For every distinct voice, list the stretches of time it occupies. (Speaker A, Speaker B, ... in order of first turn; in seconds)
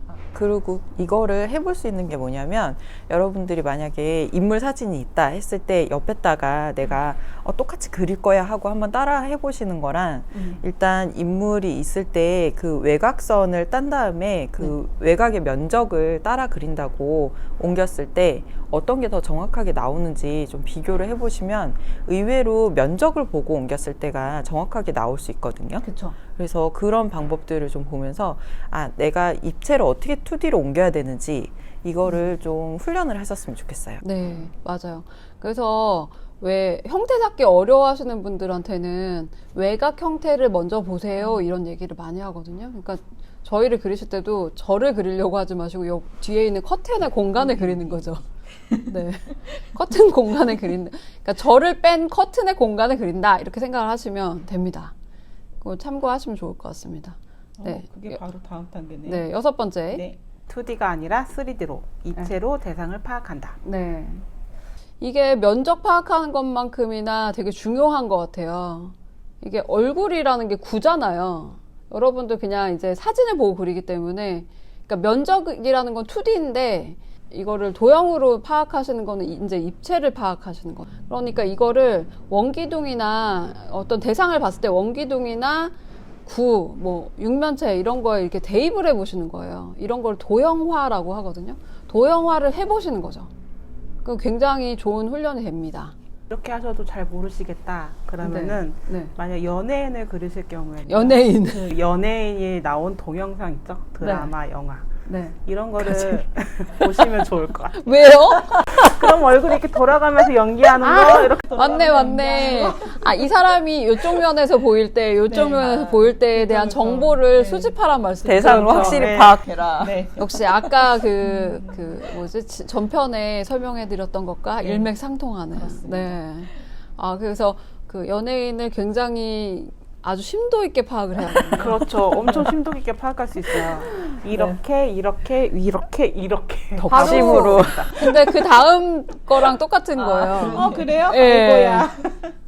Speaker A: 0.3-34.0, 118.2-120.0, 136.8-137.9
Speaker B: 10.3-10.6, 25.8-26.1, 34.0-54.9, 55.6-58.2, 59.0-60.1, 63.6-64.2, 65.0-93.3, 94.0-95.9, 98.2-99.1, 100.9-101.7, 104.0-104.3, 105.0-106.2, 107.7-108.9, 110.8-119.5, 120.1-132.5, 133.6-134.6, 136.8-141.9
Speaker C: 47.4-48.0, 57.6-59.3, 59.9-63.6, 96.3-104.9, 105.5-113.3, 115.3-117.7, 118.4-121.8, 124.6-124.9, 125.5-126.1, 131.5-138.4, 139.9-142.3